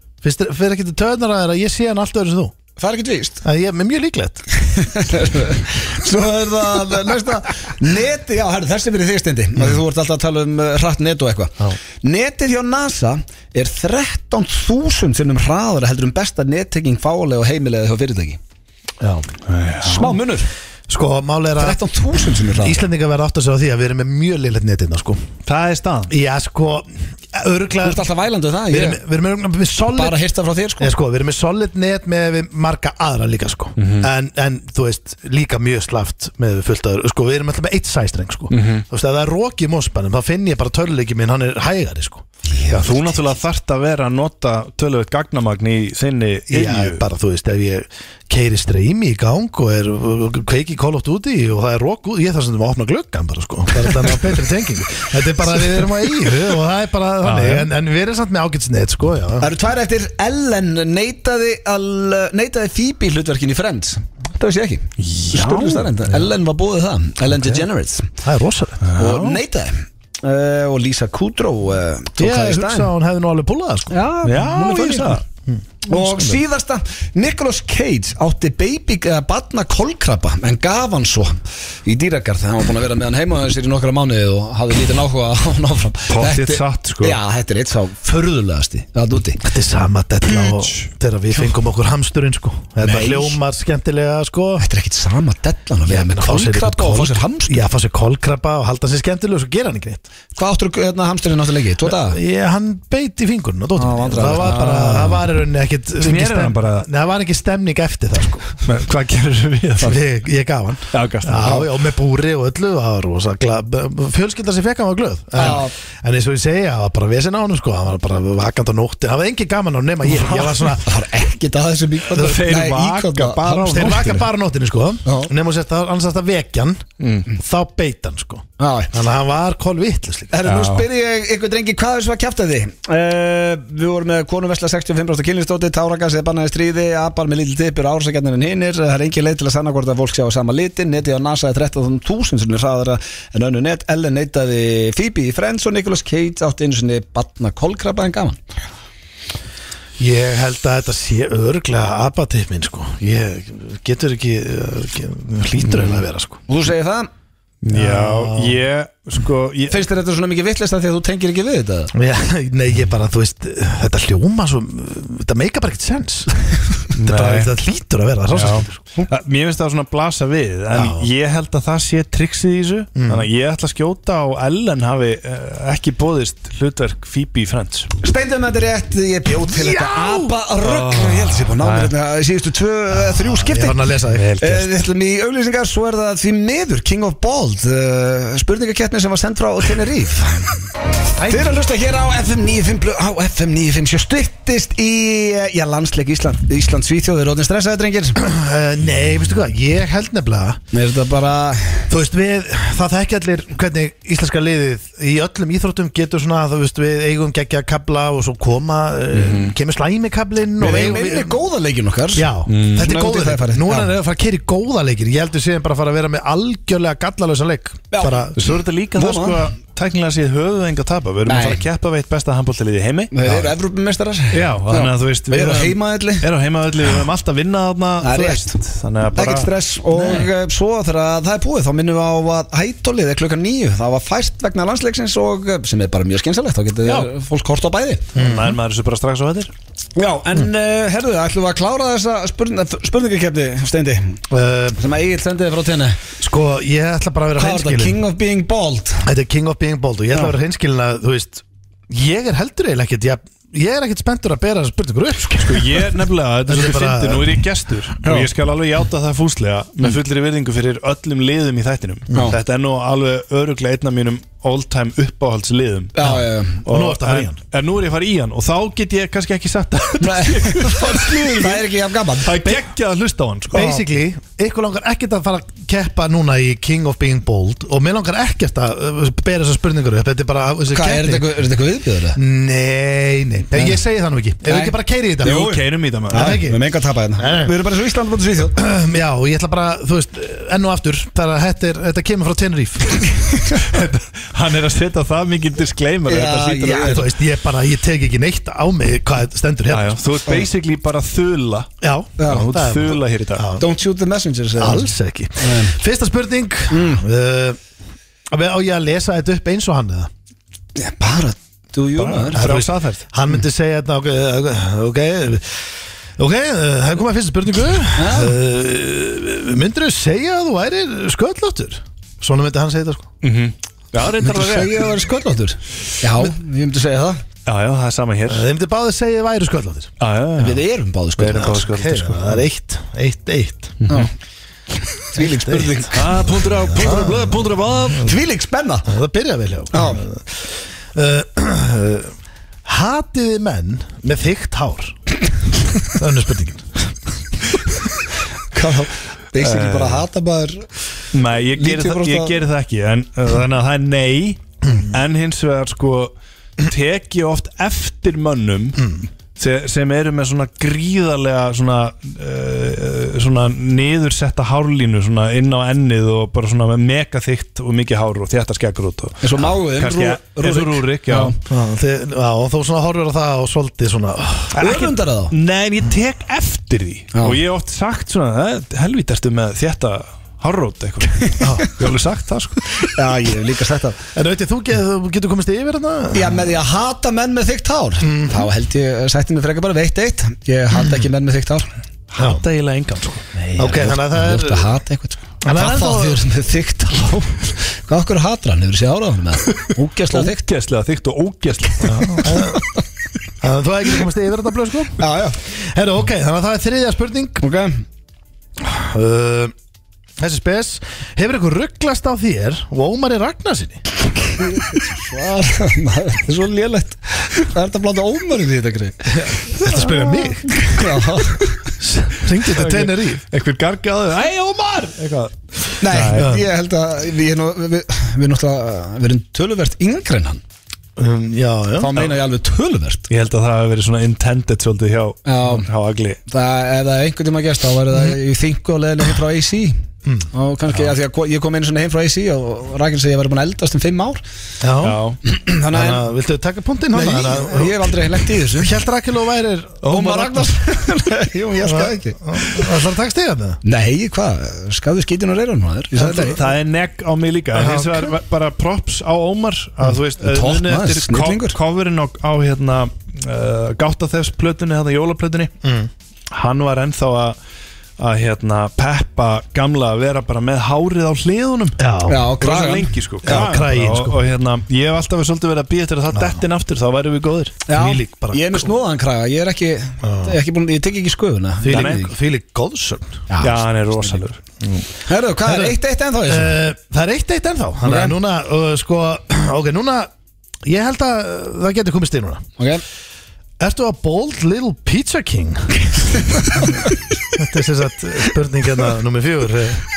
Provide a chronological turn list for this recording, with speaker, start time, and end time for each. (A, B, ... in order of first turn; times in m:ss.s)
0:00.2-0:02.6 A
0:02.8-0:03.4 B
0:03.4-0:04.5 A
0:04.6-0:18.4 B
0:19.0-0:19.3 A
0:19.5-0:20.2 C
0:19.8-0:20.5 B
0:20.9-0:21.8 A
0:21.6-0:22.8 B
0:22.6-0:25.2 A
0:25.5-0:26.1 C
0:26.1-0:28.0 A
0:27.8-0:29.0 B
0:28.7-0:30.2 A
0:29.9-0:30.9 B
0:30.8-0:42.2 A
0:33.8-0:34.1 C
0:38.5-0:38.8 C
0:42.5-0:43.3 B
0:42.7-0:47.0 C
0:46.5-0:59.5 A
0:57.2-0:57.7 C
0:59.4-1:08.1 B
1:05.0-1:05.9 C
1:07.3-1:07.6 A
1:08.2-1:08.8 A
1:08.8-1:09.4 C
1:09.0-1:12.9 B
1:12.2-1:14.0 A
1:13.9-1:15.2 B
1:14.2-1:15.2 C
1:15.5-1:16.4 A
1:15.9-1:29.4 B
1:26.1-1:27.2 C
1:29.4-1:34.6 A
1:32.8-1:33.4 B
1:34.6-1:37.7 B
1:35.9-1:40.1 A
1:40.4-1:42.2 B
1:41.8-1:48.6 A
1:43.8-1:45.2 B
1:44.3-1:45.2 C
1:46.0-1:46.9 C
1:48.6-1:50.0 C
1:49.8-2:00.9 A
1:50.9-1:51.7 C
1:55.4-1:55.7 B
2:00.8-2:04.1 B
2:02.1-2:04.3 C
2:03.7-2:10.5 A
2:05.0-2:05.3 B
2:07.0-2:07.3 C
2:08.6-2:08.9 B
2:10.3-2:28.4 B
2:10.4-2:10.9 C
2:30.0-2:36.4 A
2:35.6-2:36.0 C
2:36.5-2:37.1 B
2:37.6-2:39.9 C
2:37.7-2:38.6 A
2:39.7-2:41.9 B
2:41.9-2:48.8 A
2:46.9-2:47.6 C
2:48.3-2:57.9 C
2:50.7-2:51.1 A
2:53.0-2:53.3 A
2:58.0-3:03.8 B
2:59.5-3:00.3 A
3:00.6-3:01.9 C
3:02.9-3:04.4 A
3:04.2-3:04.7 C
3:04.4-3:10.7 B
3:11.2-3:11.6 A
3:11.3-3:18.2 B
3:18.2-3:20.6 A
3:20.7-3:21.9 B
3:21.9-3:31.4 A
3:29.1-3:29.5 C
3:30.6-3:34.0 B
3:32.2-3:38.6 A
3:32.5-3:32.9 C
3:37.9-3:38.3 B
3:38.4-3:43.1 C
3:39.0-3:39.4 B
3:41.3-3:41.6 B
3:43.1-3:46.3 B
3:44.3-3:50.3 C
3:48.0-3:48.6 B
3:49.2-3:58.1 B
3:56.8-3:57.1 C
3:58.2-3:58.6 A
3:58.2-3:59.5 C
4:00.0-4:04.2 B
4:04.3-4:04.8 A
4:04.8-4:06.0 B
4:06.2-4:08.0 A
4:07.4-4:09.1 B
4:09.0-4:17.4 A
4:15.4-4:31.7 C
4:26.0-4:26.6 B
4:26.0-4:27.4 A
4:30.0-4:32.6 B
4:32.2-4:33.8 C
4:33.5-4:41.3 A
4:40.7-4:42.2 B
4:42.2-4:45.6 A
4:44.4-4:48.6 B
4:45.2-4:46.4 C
4:46.1-4:46.6 A
4:47.2-4:47.5 A
4:48.6-4:53.1 A
4:53.3-4:53.6 B
4:53.6-4:57.1 C
4:56.1-4:57.0 B
4:56.8-5:00.4 A
4:59.7-5:01.8 C
5:01.8-5:03.7 A
5:02.2-5:02.5 B
5:02.3-5:03.5 C
5:03.6-5:05.8 B
5:04.6-5:07.6 A
5:06.7-5:07.0 B
5:08.3-5:10.1 A
5:10.8-5:12.4 B
5:12.0-5:13.0 C
5:12.3-5:23.1 A
5:18.0-5:18.4 B
5:23.2-5:24.9 C
5:24.2-5:27.2 B
5:27.5-5:28.4 C
5:28.3-5:29.9 A
5:30.0-5:30.6 C
5:30.4-5:31.6 B
5:31.2-5:32.4 C
5:31.4-5:33.8 A
5:33.8-5:34.1 C
5:35.0-5:36.0 B
5:35.2-5:37.5 A
5:35.9-5:38.2 C
5:38.0-5:38.9 B
5:38.9-5:42.1 A
5:39.7-5:40.0 B
5:42.6-5:45.0 A
5:45.8-5:46.9 A
5:48.5-5:50.7 B
5:49.4-5:50.0 C
5:51.1-6:11.4 C
5:51.5-5:52.4 B
6:09.2-6:11.4 B
6:11.5-6:14.6 A
6:14.6-6:23.0 C
6:14.6-6:15.3 B
6:17.1-6:17.4 B
6:21.4-6:21.7 A
6:22.9-6:24.0 B
6:24.2-6:26.4 A
6:26.1-6:31.7 B
6:28.0-6:28.4 A
6:32.1-6:33.3 C
6:32.2-6:32.4 A
6:33.4-6:40.4 B
6:33.5-6:34.7 A
6:35.4-6:36.2 A
6:40.1-6:42.4 C
6:41.8-6:42.6 A
6:43.4-6:47.4 A
6:45.0-6:45.4 B
6:47.4-6:47.8 B
6:48.6-6:49.5 A
6:50.2-6:53.8 A
6:54.2-6:59.2 B
6:59.1-7:00.6 A
6:59.7-7:00.3 C
7:00.5-7:01.6 B
7:01.8-7:03.2 A
7:02.5-7:06.4 C
7:05.8-7:10.4 B
7:06.1-7:06.4 A
7:11.0-7:11.9 A
7:11.8-7:13.1 B
7:13.1-7:16.2 C
7:15.3-7:15.7 B
7:16.3-7:19.8 B
7:20.3-7:24.2 B
7:24.6-7:25.0 A
7:24.8-7:25.2 C
7:25.3-7:26.1 B
7:25.7-7:30.5 A
7:26.9-7:28.8 B
7:29.8-7:32.7 B
7:31.6-7:33.6 A
7:33.6-7:36.4 B
7:36.0-7:36.4 A
7:36.1-7:45.5 C
7:37.5-7:38.1 A
7:40.2-7:41.6 B
7:45.6-7:45.9 A
7:46.3-7:47.4 C
7:48.0-7:51.8 C
7:51.8-7:52.3 A
7:52.1-7:53.4 B
7:52.4-7:57.6 C
7:53.2-7:54.2 A
7:56.1-7:56.4 A
7:57.7-8:02.1 B
7:57.7-7:58.8 A
8:00.0-8:00.4 A
8:01.6-8:03.2 A
8:01.7-8:02.1 C
8:03.3-8:04.1 B
8:03.4-8:04.4 C
8:05.1-8:06.6 B
8:05.5-8:05.8 A
8:06.3-8:10.1 A
8:07.8-8:08.2 B
8:10.6-8:12.4 A
8:13.6-8:16.0 A
8:16.2-8:16.9 B
8:17.3-8:19.8 A